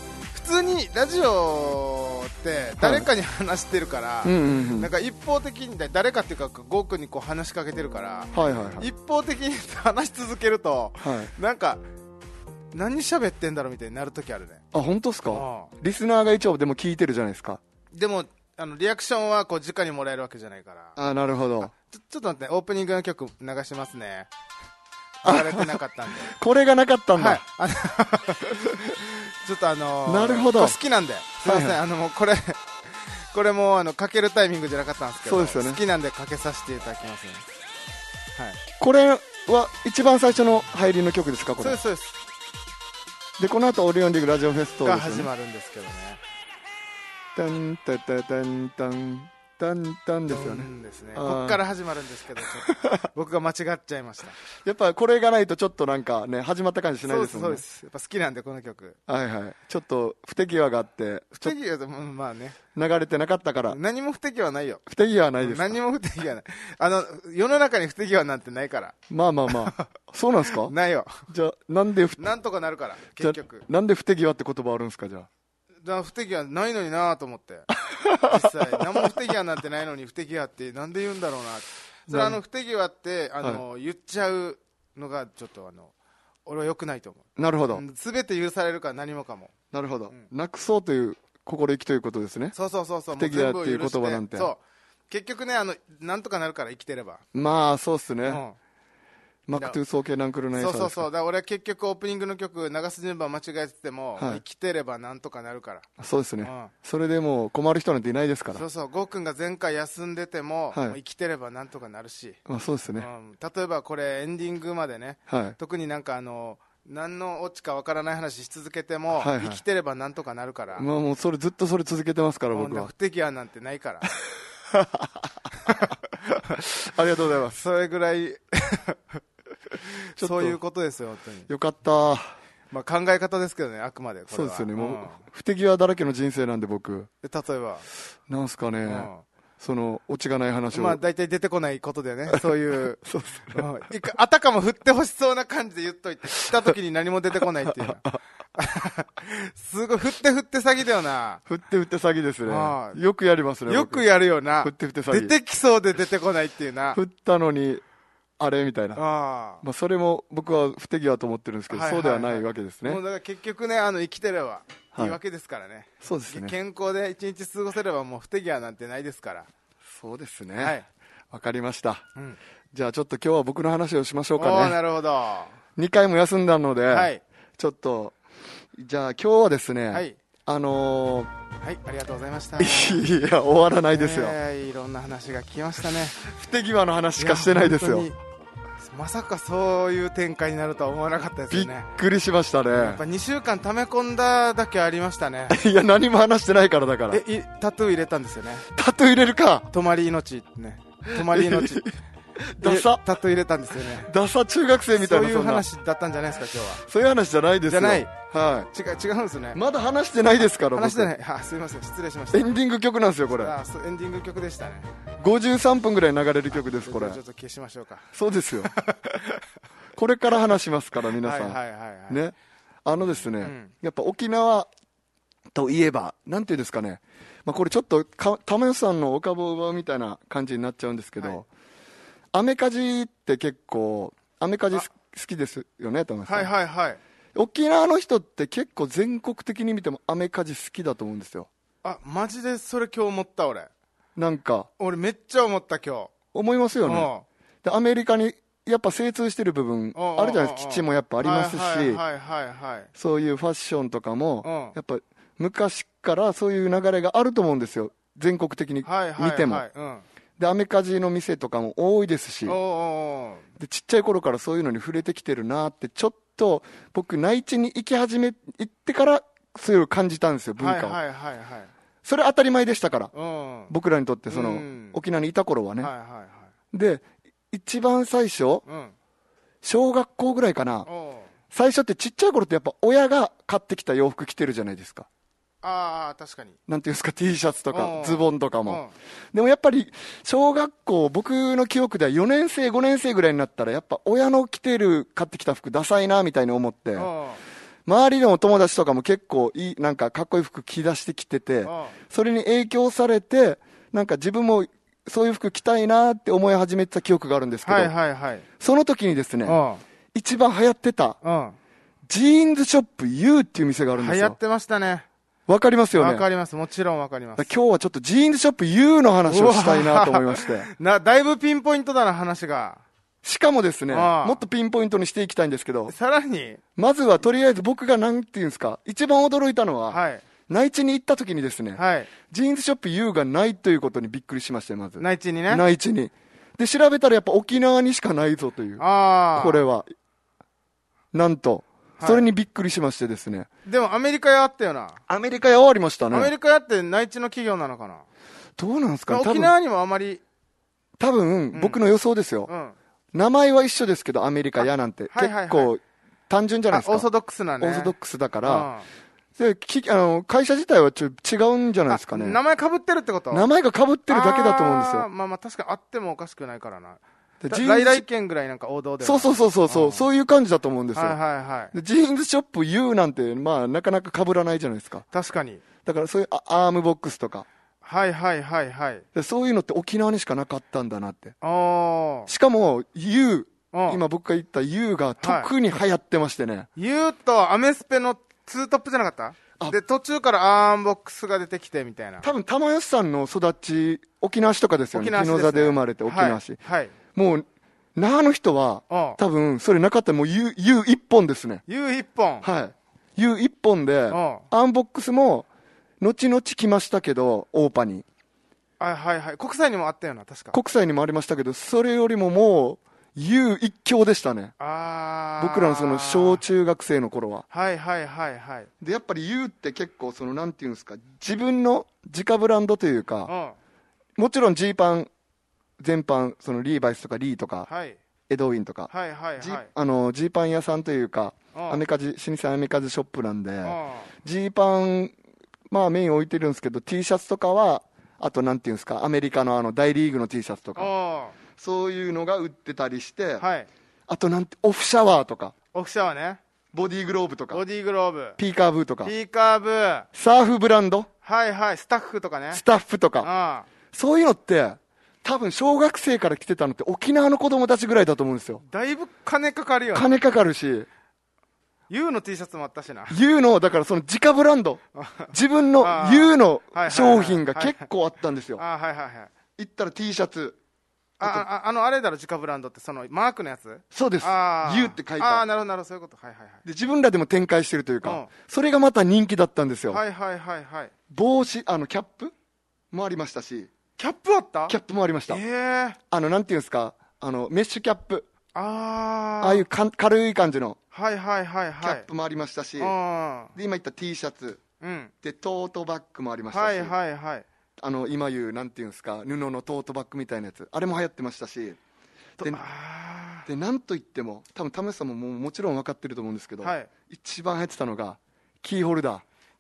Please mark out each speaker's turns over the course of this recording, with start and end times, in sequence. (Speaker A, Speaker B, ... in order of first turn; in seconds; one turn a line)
Speaker A: 0.3-11.8
Speaker B: 2.8-3.1
Speaker B: 4.2-4.9
Speaker B: 8.3-8.9
Speaker B: 11.0-11.3
Speaker A: 12.7-14.6
Speaker B: 14.7-17.6
Speaker A: 15.3-15.7
Speaker A: 17.9-21.0
Speaker B: 21.0-21.7
Speaker A: 21.8-24.3
Speaker A: 25.2-26.4
Speaker B: 25.2-27.4
Speaker A: 27.2-37.4
Speaker B: 28.5-28.9
Speaker B: 30.1-30.8
Speaker B: 31.4-31.8
Speaker B: 35.2-35.8
Speaker B: 38.8-41.8
Speaker A: 41.6-42.1
Speaker B: 43.4-45.3
Speaker A: 44.8-46.2
Speaker B: 47.4-51.6
Speaker A: 50.3-54.4
Speaker B: 52.6-53.0
Speaker B: 54.6-57.6
Speaker A: 57.0-59.0
Speaker B: 59.1-61.5
Speaker A: 61.4-62.6
Speaker B: 62.8-63.8
Speaker A: 63.7-64.8
Speaker B: 64.9-65.8
Speaker A: 65.4-69.0
Speaker B: 69.1-70.7
Speaker A: 69.5-69.8
Speaker A: 70.6-71.2
Speaker B: 71.3-72.3
Speaker A: 72.2-73.7
Speaker B: 73.2-75.3
Speaker A: 75.8-77.7
Speaker B: 77.9-78.5
Speaker A: 78.2-85.9
Speaker B: 82.1-82.4
Speaker A: 86.5-89.5
Speaker B: 87.4-87.8
Speaker B: 89.7-92.5
Speaker A: 92.5-97.2
Speaker B: 93.1-94.5
Speaker B: 97.3-98.4
Speaker A: 98.3-98.6
Speaker B: 99.5-101.1
Speaker A: 100.5-105.9
Speaker B: 104.2-104.4
Speaker B: 106.0-108.6
Speaker A: 106.4-106.7
Speaker A: 108.5-112.4
Speaker B: 110.7-111.0
Speaker B: 112.5-113.1
Speaker A: 113.0-120.9
Speaker B: 115.3-115.6
Speaker B: 119.1-119.6
Speaker B: 120.8-122.9
Speaker A: 122.5-124.1
Speaker B: 124.7-125.2
Speaker A: 125.6-125.9
Speaker B: 126.3-127.6
Speaker A: 127.5-129.2
Speaker A: 130.1-131.5
Speaker B: 130.2-130.6
Speaker B: 131.5-132.4
Speaker A: 132.7-135.2
Speaker B: 134.3-137.1
Speaker A: 137.2-137.8
Speaker B: 138.3-141.0
Speaker A: 138.8-139.2
Speaker A: 140.7-143.0
Speaker B: 143.0-143.7
Speaker A: 143.5-151.4
Speaker B: 147.7-148.2
Speaker B: 151.5-154.0
Speaker A: 152.5-153.0
Speaker A: 153.7-157.0
Speaker B: 154.6-155.3
Speaker B: 156.9-157.8
Speaker B: 158.4-159.0
Speaker A: 159.0-159.6
Speaker B: 159.6-163.0
Speaker A: 161.7-169.5
Speaker B: 166.0-166.6
Speaker B: 169.9-170.8
Speaker A: 170.6-170.9
Speaker B: 171.3-172.1
Speaker B: 172.7-174.8
Speaker A: 174.4-175.6
Speaker B: 175.8-178.2
Speaker A: 176.9-177.2
Speaker B: 178.8-181.3
Speaker A: 179.9-180.2
Speaker A: 181.6-183.0
Speaker B: 182.6-184.4
Speaker A: 183.9-186.2
Speaker B: 186.2-188.1
Speaker A: 187.2-188.2
Speaker A: 188.8-191.9
Speaker B: 191.5-193.0
Speaker A: 192.7-195.6
Speaker B: 195.5-197.2
Speaker A: 197.1-198.7
Speaker B: 198.7-199.7
Speaker A: 199.7-201.9
Speaker B: 201.1-203.0
Speaker A: 202.6-204.1
Speaker B: 203.9-205.7
Speaker A: 205.0-206.8
Speaker B: 206.8-208.7
Speaker A: 207.7-208.1
Speaker A: 208.7-209.6
Speaker B: 209.5-211.1
Speaker A: 210.7-212.5
Speaker B: 212.3-213.5
Speaker A: 213.3-214.9
Speaker B: 215.2-217.2
Speaker A: 216.5-218.1
Speaker B: 218.1-218.7
Speaker A: 218.6-219.4
Speaker B: 220.0-224.7
Speaker A: 221.2-222.2
Speaker A: 223.4-223.7
Speaker B: 225.5-231.5
Speaker B: 232.3-236.5
Speaker A: 236.3-237.0
Speaker B: 237.3-241.5
Speaker A: 241.8-243.7
Speaker B: 244.2-244.7
Speaker A: 244.8-246.1
Speaker B: 246.3-247.1
Speaker A: 246.9-247.2
Speaker B: 247.6-252.0
Speaker A: 249.9-252.9
Speaker B: 253.0-259.7
Speaker A: 254.4-254.8
Speaker A: 258.9-260.0
Speaker B: 260.4-262.6
Speaker A: 262.5-263.4
Speaker B: 263.6-271.0
Speaker A: 270.6-271.7
Speaker B: 272.1-273.1
Speaker A: 273.1-273.7
Speaker B: 273.7-275.9
Speaker A: 274.3-275.0
Speaker A: 275.8-276.5
Speaker B: 276.7-278.6
Speaker A: 278.7-278.9
Speaker B: 279.6-280.9
Speaker A: 280.9-281.3
Speaker B: 281.5-285.1
Speaker A: 285.6-286.6
Speaker B: 286.7-297.1
Speaker A: 287.7-288.9
Speaker A: 297.0-297.4
Speaker B: 297.9-307.9
Speaker A: 301.6-301.9
Speaker A: 307.6-308.4
Speaker B: 308.6-309.6
Speaker A: 309.5-309.8
Speaker B: 310.1-311.2
Speaker A: 311.2-311.6
Speaker B: 312.1-314.4
Speaker A: 314.0-315.1
Speaker B: 315.5-316.2
Speaker A: 315.9-317.5
Speaker B: 317.4-320.7
Speaker A: 319.3-322.8
Speaker B: 323.2-325.9
Speaker A: 323.9-324.4
Speaker A: 325.9-326.6
Speaker B: 326.8-338.8
Speaker A: 329.9-330.2
Speaker A: 331.8-332.1
Speaker A: 335.0-335.6
Speaker A: 338.8-339.6
Speaker B: 339.4-339.9
Speaker B: 341.1-343.5
Speaker A: 342.0-342.3
Speaker A: 343.7-345.0
Speaker B: 345.1-346.3
Speaker A: 346.1-348.1
Speaker B: 348.6-349.5
Speaker A: 349.1-350.2
Speaker B: 351.0-352.5
Speaker A: 351.5-351.8
Speaker A: 352.5-352.8
Speaker B: 353.1-357.1
Speaker A: 355.1-355.7
Speaker A: 356.7-357.9
Speaker B: 357.6-358.7
Speaker A: 358.4-358.9
Speaker B: 359.4-362.4
Speaker A: 361.9-363.5
Speaker B: 363.3-365.1
Speaker A: 364.1-370.1
Speaker B: 367.4-368.0
Speaker B: 369.0-371.2
Speaker A: 370.9-371.7
Speaker B: 371.7-375.1
Speaker A: 375.1-375.6
Speaker B: 375.9-377.5
Speaker A: 377.8-379.1
Speaker B: 379.1-381.4
Speaker A: 381.4-382.3
Speaker B: 382.3-386.7
Speaker A: 383.7-384.0
Speaker A: 385.2-385.5
Speaker A: 386.8-392.3
Speaker B: 392.2-396.6
Speaker A: 394.9-396.9
Speaker B: 397.1-401.6
Speaker A: 398.9-399.2
Speaker A: 401.7-402.5
Speaker B: 402.4-405.5
Speaker A: 404.1-404.5
Speaker B: 406.0-408.1
Speaker A: 408.8-410.6
Speaker B: 410.5-414.5
Speaker A: 414.6-416.4
Speaker B: 415.4-417.4
Speaker A: 417.5-418.7
Speaker B: 418.8-423.3
Speaker A: 423.3-423.6
Speaker B: 424.2-425.1
Speaker B: 425.8-427.7
Speaker A: 427.7-428.0
Speaker B: 428.3-435.1
Speaker A: 428.9-429.7
Speaker A: 431.6-431.8
Speaker A: 433.6-434.1
Speaker B: 435.7-440.9
Speaker A: 440.8-441.4
Speaker B: 441.6-443.4
Speaker A: 443.4-443.7
Speaker B: 444.1-445.6
Speaker A: 445.7-446.4
Speaker B: 446.7-447.6
Speaker A: 447.5-448.4
Speaker B: 448.4-449.1
Speaker A: 449.0-450.1
Speaker B: 450.1-451.1
Speaker A: 451.2-452.6
Speaker B: 452.5-453.3
Speaker A: 453.2-453.7
Speaker B: 453.9-458.6
Speaker A: 458.6-460.1
Speaker B: 459.9-460.9
Speaker A: 461.9-463.2
Speaker B: 463.1-464.8
Speaker A: 464.9-467.9
Speaker B: 465.3-468.6
Speaker A: 468.6-469.3
Speaker B: 469.6-470.6
Speaker A: 471.2-476.6
Speaker B: 473.9-475.4
Speaker B: 476.6-480.0
Speaker A: 478.0-478.3
Speaker A: 479.9-480.9
Speaker B: 481.1-482.3
Speaker B: 482.9-483.7
Speaker A: 484.0-484.8
Speaker B: 484.7-485.4
Speaker A: 485.3-486.0
Speaker B: 486.1-488.3
Speaker A: 488.6-489.6
Speaker B: 489.4-490.8
Speaker A: 490.9-492.1
Speaker B: 491.8-492.9
Speaker A: 492.8-493.5
Speaker B: 493.6-494.6
Speaker A: 494.8-495.1
Speaker B: 495.2-496.9
Speaker A: 496.5-497.4
Speaker B: 497.8-501.8
Speaker A: 502.4-503.5
Speaker B: 503.5-509.2
Speaker A: 506.6-506.9